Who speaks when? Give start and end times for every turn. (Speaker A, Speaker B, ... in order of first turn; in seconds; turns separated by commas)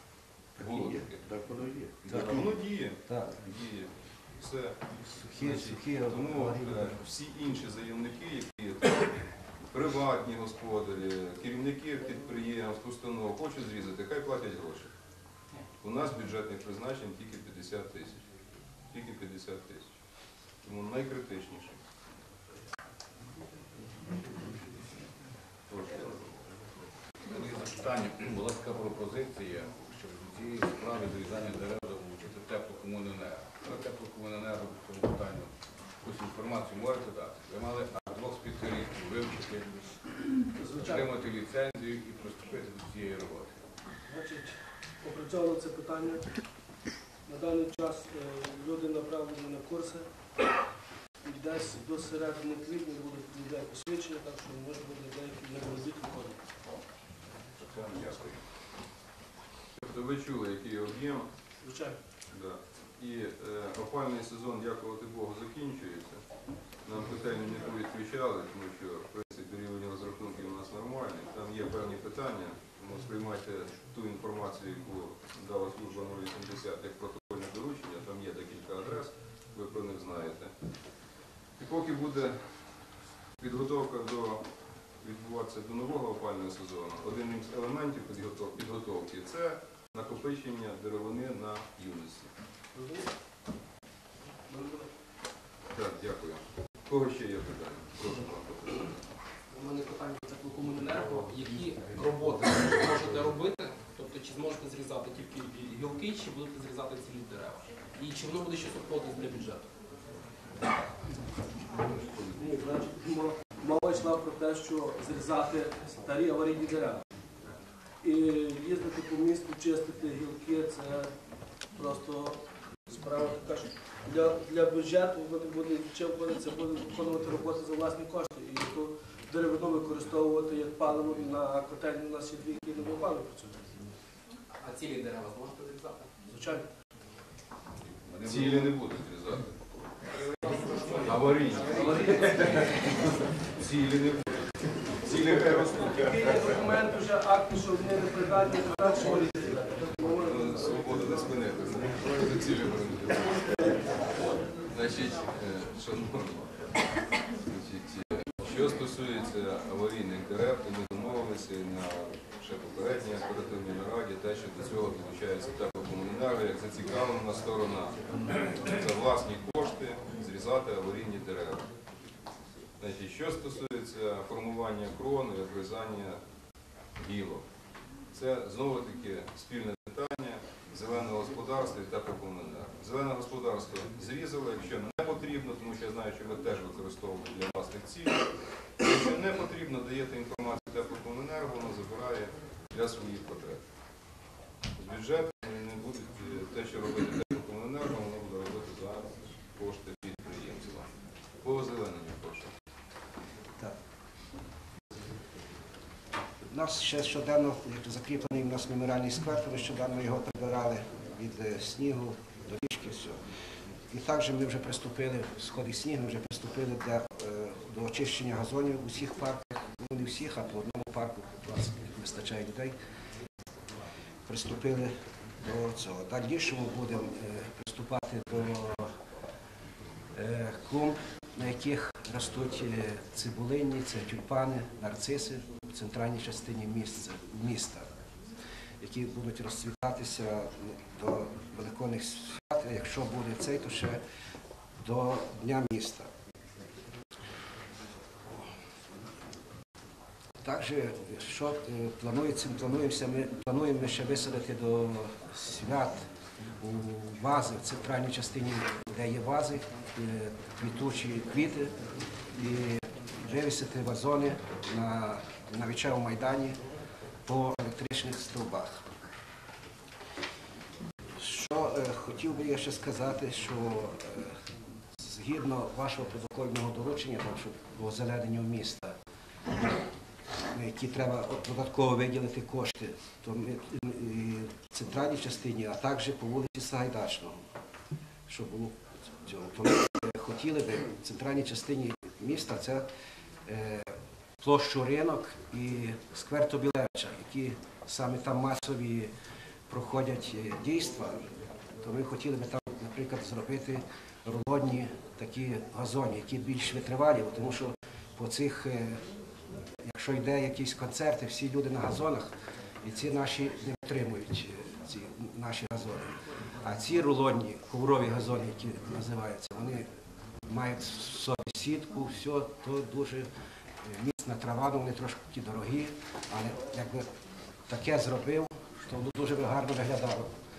Speaker A: 0.6-1.2, Speaker B: 0.6-2.5, Speaker A: 2.0-4.8, Speaker C: 2.1-2.4, Speaker C: 3.1-3.4, Speaker C: 5.0-7.0, Speaker A: 5.3-9.2, Speaker A: 9.7-14.9, Speaker A: 15.8-18.2, Speaker A: 18.9-19.9, Speaker A: 20.6-21.8, Speaker A: 25.7-26.3, Speaker D: 27.3-35.5, Speaker D: 36.0-39.7, Speaker E: 40.6-41.1, Speaker D: 40.8-43.5, Speaker E: 44.1-46.3, Speaker E: 47.2-50.0, Speaker E: 51.2-56.4, Speaker A: 57.7-58.1, Speaker D: 57.8-58.2, Speaker A: 59.7-61.3, Speaker E: 61.6-62.0, Speaker A: 62.3-66.2, Speaker A: 66.8-80.5, Speaker A: 81.6-82.5, Speaker A: 83.4-84.4, Speaker A: 85.0-92.3, Speaker E: 92.7-93.0, Speaker E: 94.5-94.9, Speaker A: 95.7-98.9, Speaker F: 99.5-109.6, Speaker E: 111.9-117.0, Speaker E: 118.0-121.1, Speaker E: 121.7-133.6, Speaker F: 134.6-136.1, Speaker E: 136.2-136.7, Speaker D: 138.1-138.7, Speaker A: 138.2-139.6, Speaker F: 140.4-142.7, Speaker D: 140.8-142.8, Speaker A: 141.0-146.6, Speaker E: 145.9-151.3, Speaker A: 150.2-153.8, Speaker E: 153.4-153.7, Speaker A: 154.7-156.5, Speaker A: 157.4-171.6, Speaker A: 172.8-176.2, Speaker A: 177.0-177.4, Speaker A: 178.1-188.2, Speaker A: 188.8-193.6, Speaker A: 194.8-200.9, Speaker A: 201.4-202.5, Speaker C: 206.5-213.2, Speaker C: 213.9-222.7, Speaker C: 224.2-228.9, Speaker C: 230.1-237.9, Speaker C: 238.8-244.0, Speaker C: 244.8-246.1, Speaker C: 250.4-256.0, Speaker C: 256.6-261.7, Speaker C: 262.4-266.6, Speaker C: 267.2-268.8, Speaker C: 271.1-274.4, Speaker C: 274.9-279.0, Speaker C: 280.5-287.4, Speaker C: 288.3-292.9, Speaker C: 293.4-299.1, Speaker C: 299.7-301.3, Speaker C: 301.8-309.0, Speaker C: 309.8-312.3, Speaker C: 312.8-319.9, Speaker C: 320.5-323.3, Speaker C: 323.8-327.1, Speaker C: 327.7-330.3